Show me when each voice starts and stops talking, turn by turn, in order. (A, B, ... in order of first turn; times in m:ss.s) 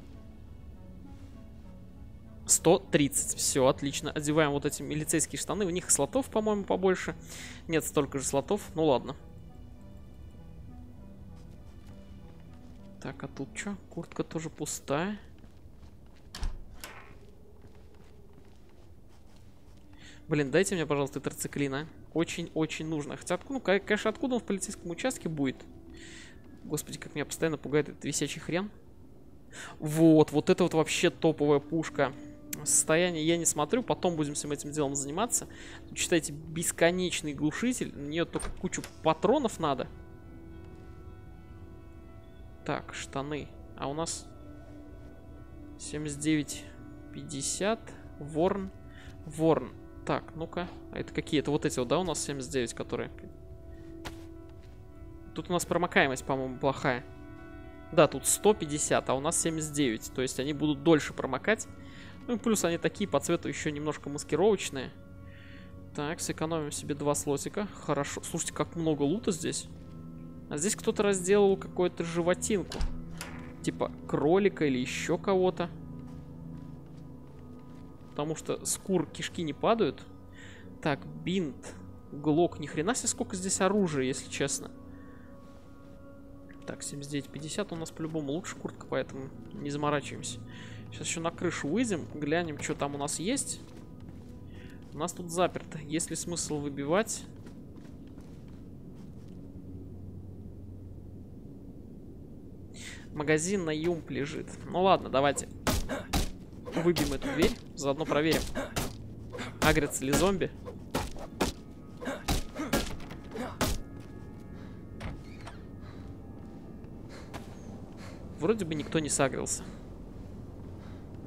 0:02.4-0:09.2 A
0:13.0-0:15.2 A
0:20.3-0:25.7 A
0:26.6-0:28.7 A
0:29.8-0:39.9 A
0:42.6-0:44.3 A
0:45.8-0:48.7 A
0:49.2-0:53.3 A
0:55.3-0:57.0 A
0:57.9-1:01.7 A
1:02.2-1:04.9 A
1:05.9-1:09.7 A
1:10.5-1:12.9 A
1:13.6-1:15.7 A
1:18.1-1:20.1 A
1:20.8-1:24.7 A
1:26.6-1:33.6 A
1:34.9-1:37.3 A
1:43.1-1:45.5 A
1:46.7-1:48.5 A
1:49.6-1:50.5 A
1:58.4-1:59.7 A